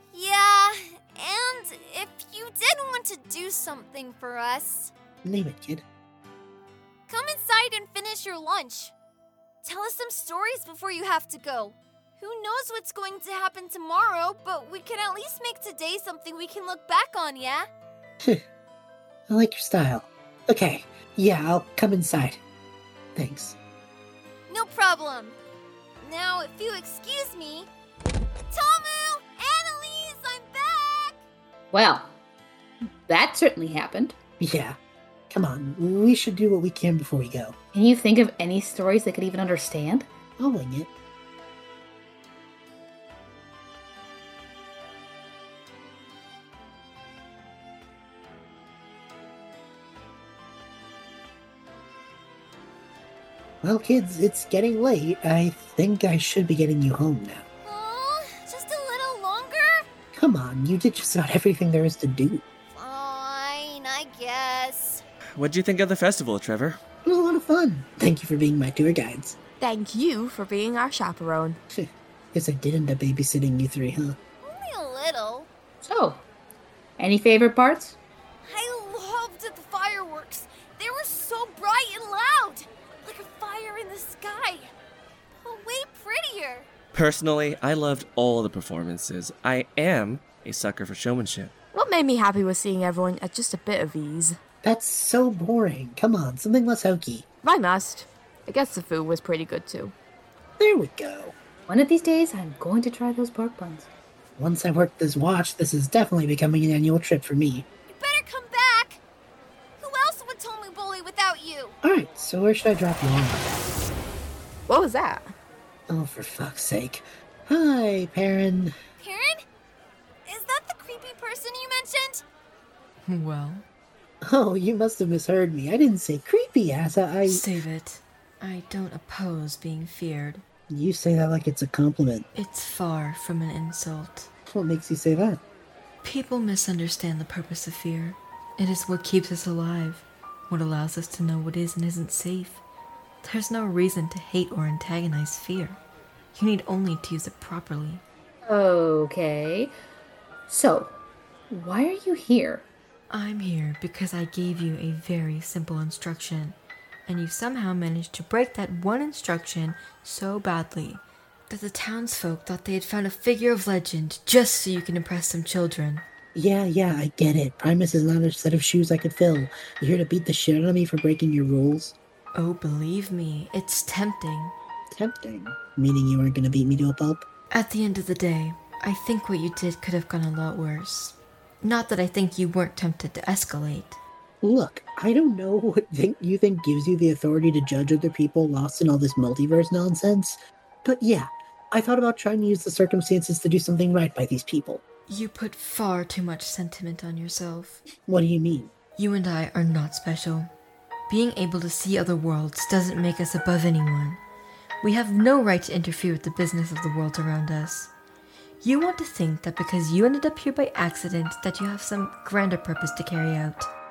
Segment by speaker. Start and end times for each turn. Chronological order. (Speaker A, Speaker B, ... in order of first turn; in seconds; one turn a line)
Speaker A: 0.1-4.9
Speaker B: 5.2-5.8
Speaker A: 7.1-8.9
Speaker A: 9.6-17.7
Speaker B: 19.3-22.4
Speaker B: 23.1-23.6
Speaker A: 24.5-25.4
Speaker A: 26.0-27.7
Speaker A: 28.5-31.2
Speaker C: 31.7-32.1
Speaker C: 32.8-34.1
Speaker B: 34.4-34.8
Speaker B: 35.3-37.5
Speaker C: 37.7-40.0
Speaker B: 40.4-40.9
Speaker B: 53.6-57.5
Speaker A: 57.6-59.8
Speaker B: 60.1-62.4
Speaker A: 62.7-65.0
Speaker D: 65.4-66.8
Speaker B: 67.0-69.4
Speaker E: 69.6-71.6
Speaker B: 71.7-74.2
Speaker A: 74.4-75.5
Speaker C: 75.8-76.2
Speaker C: 77.0-78.0
Speaker A: 78.4-84.7
Speaker A: 85.4-86.7
Speaker D: 86.9-91.5
Speaker E: 91.7-94.4
Speaker B: 94.6-97.2
Speaker E: 97.4-99.9
Speaker B: 100.6-101.3
Speaker C: 101.7-103.9
Speaker B: 104.4-107.7
Speaker A: 107.9-109.0
Speaker A: 109.8-111.8
Speaker B: 111.8-113.6
Speaker E: 114.7-115.3
Speaker B: 115.9-118.7
Speaker A: 119.0-119.4
Speaker A: 120.2-122.2
Speaker F: 123.0-123.7
Speaker B: 124.2-127.5
Speaker F: 127.2-130.4
Speaker B: 130.7-132.3
Speaker F: 132.3-134.3
Speaker B: 134.5-135.4
Speaker F: 136.0-142.6
Speaker F: 143.2-145.8
Speaker F: 146.3-148.0
Speaker C: 148.4-149.7
Speaker C: 150.5-150.9
Speaker C: 151.5-152.7
Speaker F: 153.1-156.6
Speaker F: 157.1-166.0
Speaker B: 166.3-171.9
Speaker F: 172.3-174.5
Speaker B: 174.9-177.2
Speaker F: 177.5-184.0
Speaker B: 184.4-194.8
Speaker F: 195.1-197.8
Speaker B: 198.1-198.7
Speaker F: 199.0-200.5
Speaker F: 201.1-204.2
Speaker F: 204.8-207.9
Speaker F: 208.6-213.7